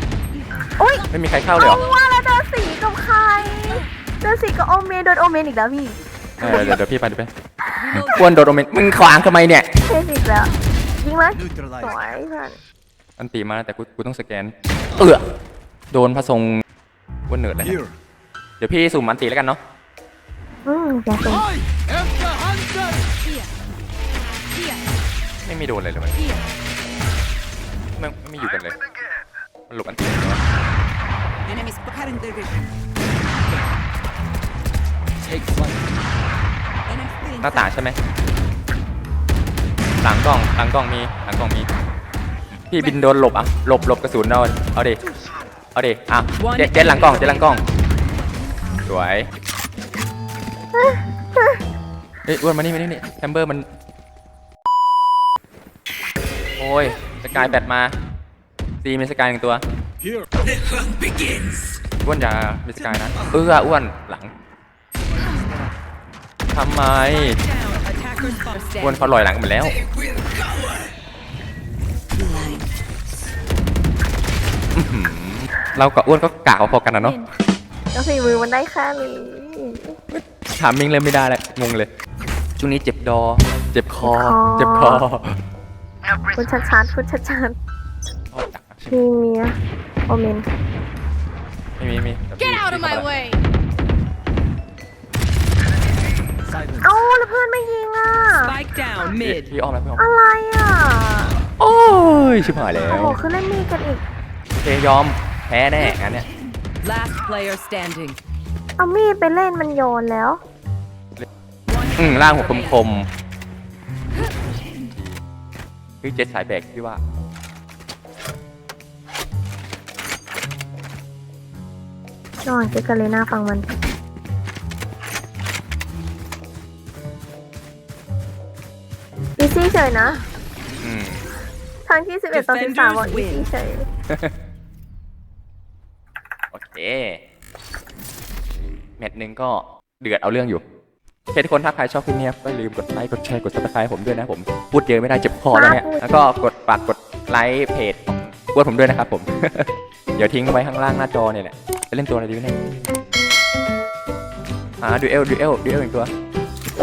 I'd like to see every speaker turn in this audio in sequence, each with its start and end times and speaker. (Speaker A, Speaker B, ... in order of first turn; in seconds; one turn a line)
Speaker A: 0.8-6.8
Speaker B: 1.1-1.8
Speaker B: 6.4-7.3
Speaker C: 6.4-6.7
Speaker C: 7.8-8.4
Speaker B: 7.9-9.7
Speaker A: 9.8-12.6
Speaker D: 11.3-11.9
Speaker B: 13.2-15.2
Speaker B: 15.9-16.6
Speaker B: 17.3-17.8
Speaker D: 17.6-17.9
Speaker B: 18.6-19.6
Speaker A: 20.6-21.5
Speaker D: 21.2-23.1
Speaker E: 23.2-23.5
Speaker E: 24.5-24.8
Speaker B: 25.4-26.2
Speaker E: 26.1-26.4
Speaker B: 28.0-28.8
Speaker B: 29.7-30.4
Speaker C: 31.4-32.6
Speaker D: 35.2-35.8
Speaker C: 36.9-37.7
Speaker B: 37.4-38.0
Speaker B: 40.0-41.7
Speaker B: 42.7-45.0
Speaker B: 45.7-47.6
Speaker C: 46.4-47.5
Speaker B: 48.8-49.3
Speaker A: 50.7-51.6
Speaker B: 52.3-53.6
Speaker B: 56.6-57.9
Speaker B: 58.8-59.6
Speaker B: 62.0-64.3
Speaker C: 65.2-65.7
Speaker B: 66.5-67.4
Speaker C: 67.0-69.2
Speaker B: 68.8-69.8
Speaker C: 72.1-72.7
Speaker B: 74.7-77.2
Speaker A: 77.9-80.0
Speaker B: 80.1-81.9
Speaker B: 82.6-85.3
Speaker A: 84.0-85.0
Speaker A: 86.3-87.6
Speaker B: 88.3-89.0
Speaker A: 88.9-89.5
Speaker A: 90.1-90.5
Speaker B: 91.8-93.1
Speaker E: 92.4-93.4
Speaker D: 96.4-97.0
Speaker A: 96.8-98.5
Speaker C: 98.4-99.5
Speaker B: 99.2-100.0
Speaker A: 100.0-101.4
Speaker B: 101.5-103.2
Speaker A: 102.7-104.0
Speaker B: 104.6-106.2
Speaker C: 106.8-108.2
Speaker A: 108.8-110.4
Speaker C: 111.7-112.8
Speaker B: 112.0-113.1
Speaker B: 114.9-115.2
Speaker B: 116.0-117.0
Speaker A: 122.4-123.7
Speaker A: 129.4-130.2
Speaker B: 130.8-131.2
Speaker A: 131.9-133.8
Speaker C: 132.3-133.4
Speaker B: 136.5-137.2
Speaker B: 139.0-140.6
Speaker B: 141.3-152.6
Speaker A: 145.5-146.3
Speaker B: 154.8-156.1